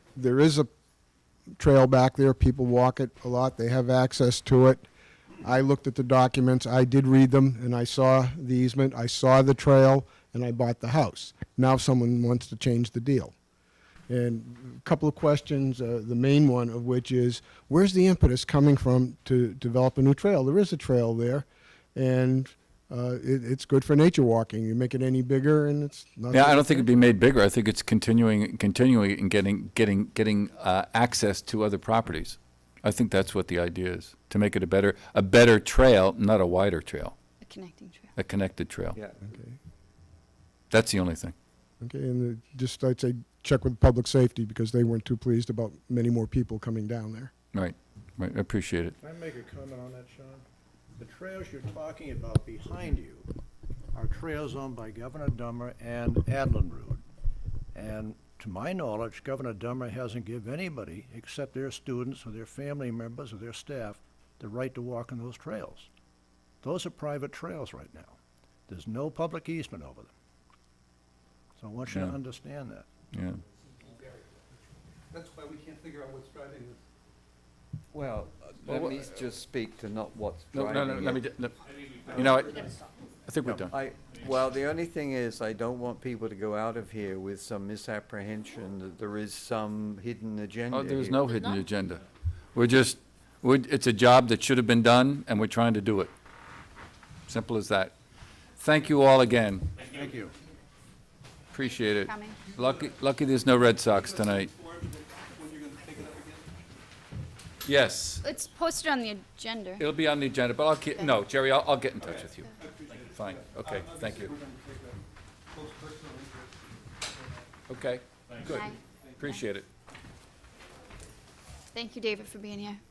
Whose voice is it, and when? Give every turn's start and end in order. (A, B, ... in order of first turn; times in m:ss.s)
0:00.2-0:00.7 A
0:01.6-0:04.8 A
0:05.4-0:13.3 A
0:14.1-0:26.9 A
0:26.3-0:37.1 B
0:37.4-0:38.1 C
0:38.2-0:39.0 B
0:38.9-0:39.2 D
0:39.2-0:39.6 A
0:40.7-0:41.3 B
0:41.8-0:47.3 A
0:47.5-0:49.0 B
0:49.0-0:50.4 E
0:51.0-0:53.3 E
0:53.9-0:57.0 E
0:57.7-1:05.9 E
1:06.6-1:08.2 E
1:08.7-1:10.1 E
1:11.6-1:12.8 E
1:11.9-1:12.2 B
1:13.1-1:13.4 B
1:15.1-1:16.8 F
1:17.9-1:21.2 D
1:18.6-1:19.1 B
1:20.5-1:21.6 B
1:22.1-1:22.6 B
1:23.3-1:23.7 B
1:23.5-1:31.4 D
1:30.7-1:32.0 B
1:32.5-1:36.1 B
1:37.3-1:37.9 B
1:38.6-1:39.7 B
1:39.9-1:40.3 E
1:41.5-1:44.5 B
1:41.7-1:42.5 C
1:44.1-1:46.5 F
1:47.6-1:48.3 B
1:48.2-1:49.9 C
1:49.8-1:52.5 B
1:52.6-1:55.0 F
1:53.0-1:54.3 B
1:55.5-1:56.5 F
1:57.7-1:59.7 B
1:58.4-1:59.4 C
2:01.7-2:02.8 C